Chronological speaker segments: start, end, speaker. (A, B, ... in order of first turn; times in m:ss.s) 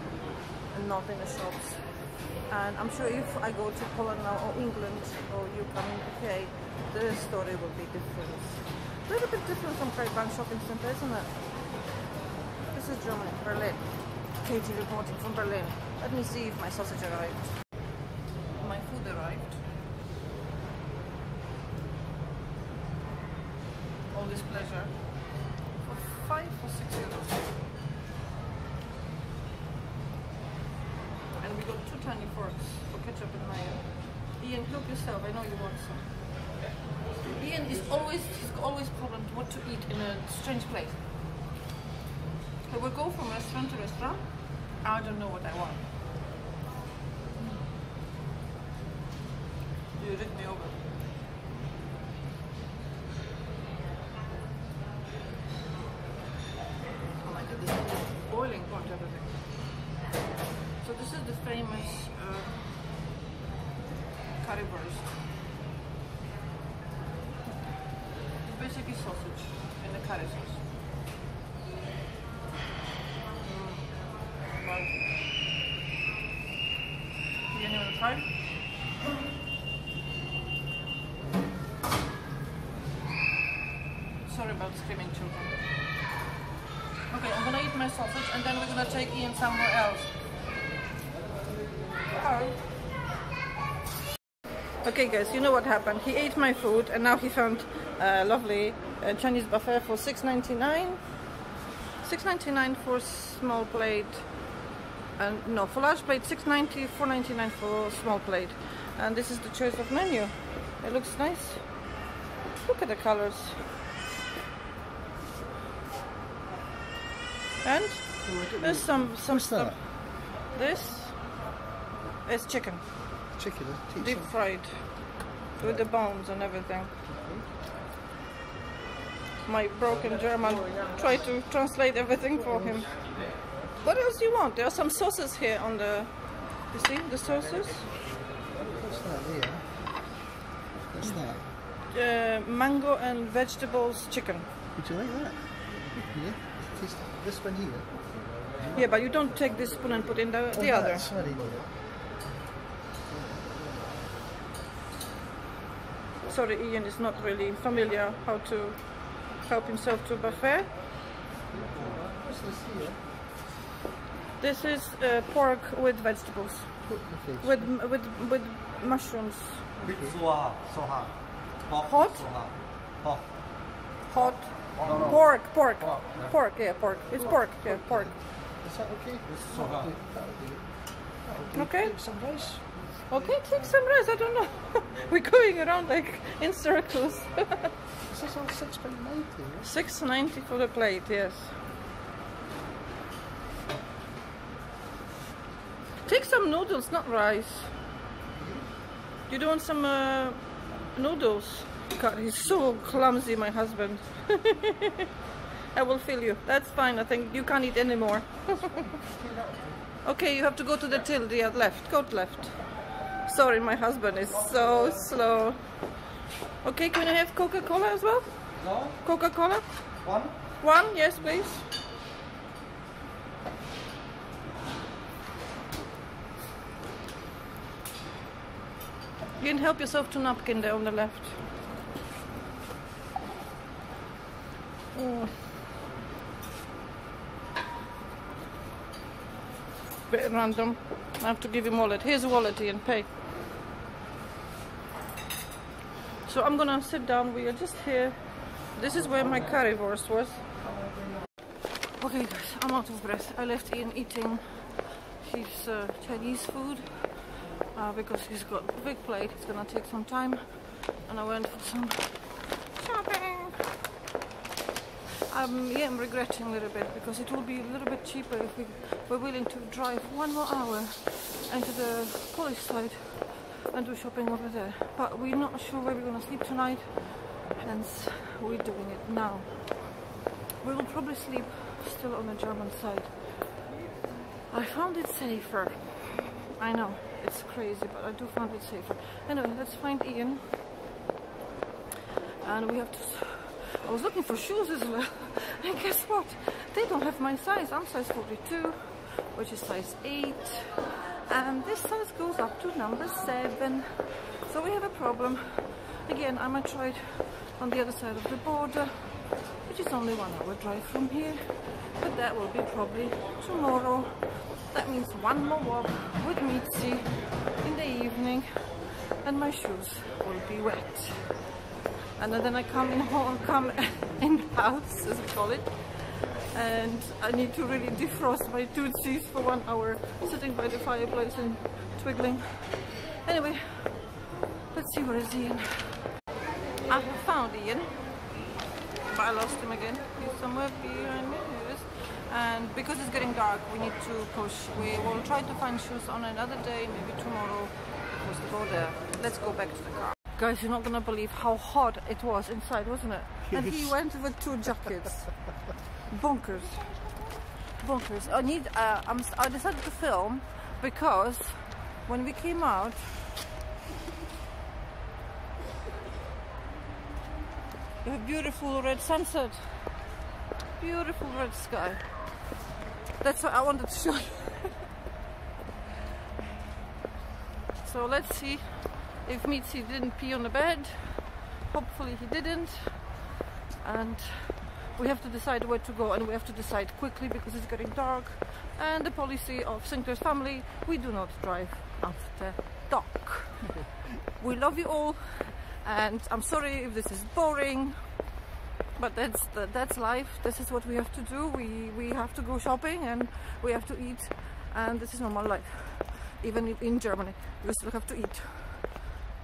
0:00.7-0:11.9 A
0:12.7-0:17.6 A
0:18.5-0:19.6 A
0:24.1-0:27.5 A
0:31.4-0:36.5 A
0:37.3-0:41.0 A
0:42.7-0:45.8 A
0:50.0-0:50.8 A
0:57.2-0:59.8 A
1:00.8-1:02.6 A
1:04.4-1:05.2 A
1:08.4-1:10.6 A
1:13.4-1:15.1 A
1:17.5-1:18.5 A
1:24.2-1:25.6 A
1:27.1-1:30.1 A
1:32.1-1:32.6 A
1:34.8-1:41.2 A
1:42.0-1:44.3 A
1:45.2-1:51.9 A
1:52.6-1:53.7 A
1:57.6-2:01.3 A
1:58.2-1:59.8 B
2:02.2-2:02.9 A
2:03.4-2:04.3 B
2:04.0-2:06.9 A
2:05.6-2:05.8 B
2:07.1-2:07.5 B
2:09.4-2:17.9 A
2:12.4-2:12.8 B
2:18.7-2:19.7 B
2:20.9-2:21.4 B
2:21.9-2:24.5 A
2:24.8-2:28.0 B
2:28.7-2:31.1 A
2:30.5-2:31.7 B
2:36.2-2:40.7 A
2:41.5-2:43.0 B
2:44.4-2:49.8 A
2:46.8-2:47.7 B
2:49.8-2:50.2 B
2:49.8-2:51.1 C
2:51.7-2:53.2 C
2:51.8-2:52.2 A
2:54.1-2:58.1 A
2:57.2-3:00.6 B
2:59.5-2:59.8 C
3:01.2-3:03.5 B
3:01.5-3:01.9 A
3:03.1-3:07.7 A
3:08.1-3:09.7 B
3:09.6-3:11.5 A
3:16.0-3:17.7 A
3:18.4-3:18.6 B
3:19.3-3:25.0 A
3:25.7-3:28.9 A
3:30.0-3:35.8 A
3:36.6-3:39.9 A
3:38.6-3:38.9 C
3:40.0-3:40.3 C
3:40.6-3:41.6 A
3:49.4-3:51.4 A
3:54.9-3:55.3 A
4:00.1-4:03.1 A
4:06.2-4:10.4 A
4:11.9-4:23.7 A
4:25.3-4:39.8 A
4:40.6-4:43.4 A
4:44.5-4:50.6 A
4:52.4-5:21.6 A
5:22.2-5:36.2 A
5:36.9-5:38.4 A
5:39.1-5:55.5 A
5:53.5-5:53.9 B
5:56.1-5:57.0 A
5:57.7-6:03.4 A
6:08.0-6:10.0 A
6:10.8-6:12.4 A
6:13.2-6:14.8 A
6:17.8-6:23.2 A
6:23.8-6:33.8 A
6:34.4-6:38.3 A
6:39.0-6:49.1 A